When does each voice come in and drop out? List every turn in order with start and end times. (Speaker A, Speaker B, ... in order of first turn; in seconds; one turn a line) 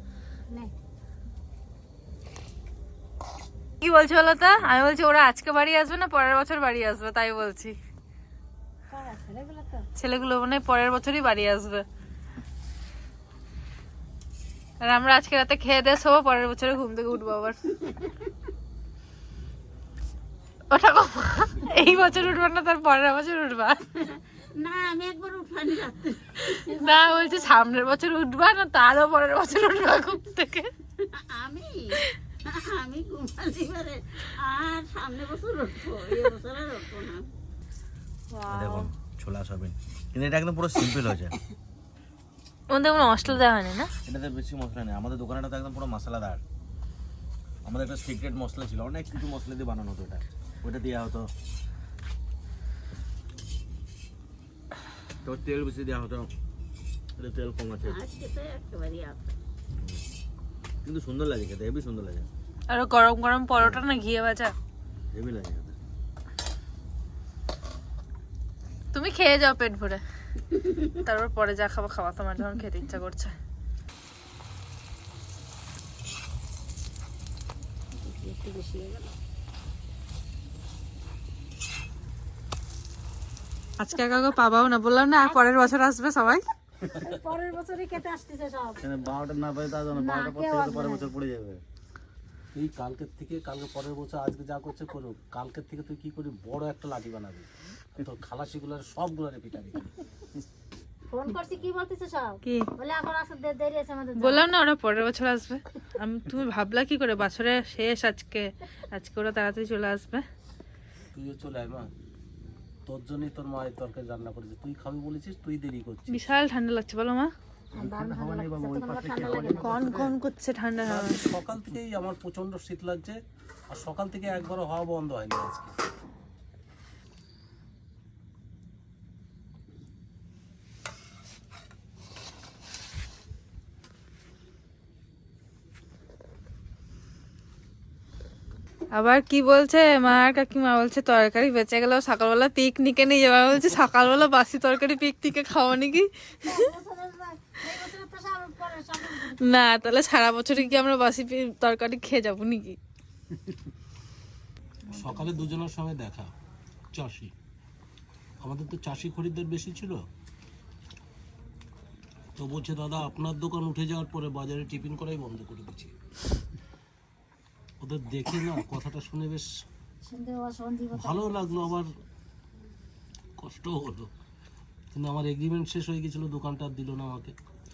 Speaker A: 3.8-7.8
Speaker B: 8.9-9.9
Speaker A: 10.0-11.8
Speaker A: 14.8-17.6
Speaker C: 17.8-18.1
Speaker A: 20.7-23.8
Speaker C: 24.0-27.5
Speaker A: 26.4-30.7
Speaker C: 31.1-31.9
Speaker C: 32.5-37.3
Speaker A: 38.3-38.9
Speaker D: 38.5-41.3
Speaker A: 42.7-43.9
Speaker D: 44.0-46.4
Speaker D: 47.6-51.3
Speaker D: 55.2-56.3
Speaker D: 57.2-58.0
Speaker C: 57.8-59.3
Speaker D: 60.8-62.3
Speaker A: 62.7-64.5
Speaker D: 63.6-63.8
Speaker D: 65.1-65.7
Speaker A: 68.9-70.0
Speaker A: 70.8-73.3
Speaker B: 77.9-79.1
Speaker A: 83.8-86.4
Speaker B: 85.2-85.6
Speaker B: 86.8-88.8
Speaker E: 88.8-91.6
Speaker B: 89.9-91.1
Speaker F: 92.5-99.9
Speaker B: 101.1-104.5
Speaker A: 104.2-110.2
Speaker F: 111.1-111.9
Speaker F: 112.8-116.3
Speaker A: 116.1-117.3
Speaker B: 117.8-119.8
Speaker E: 117.8-120.1
Speaker A: 119.6-121.2
Speaker F: 120.8-123.2
Speaker F: 123.7-125.7
Speaker A: 138.9-146.7
Speaker B: 146.4-149.4
Speaker A: 149.1-152.8
Speaker F: 154.9-156.3
Speaker B: 154.9-155.5
Speaker F: 156.9-157.3
Speaker F: 158.4-160.1
Speaker F: 162.4-165.9
Speaker F: 167.8-169.5
Speaker B: 170.0-171.8
Speaker F: 170.9-171.9
Speaker F: 173.4-174.1
Speaker F: 174.9-177.3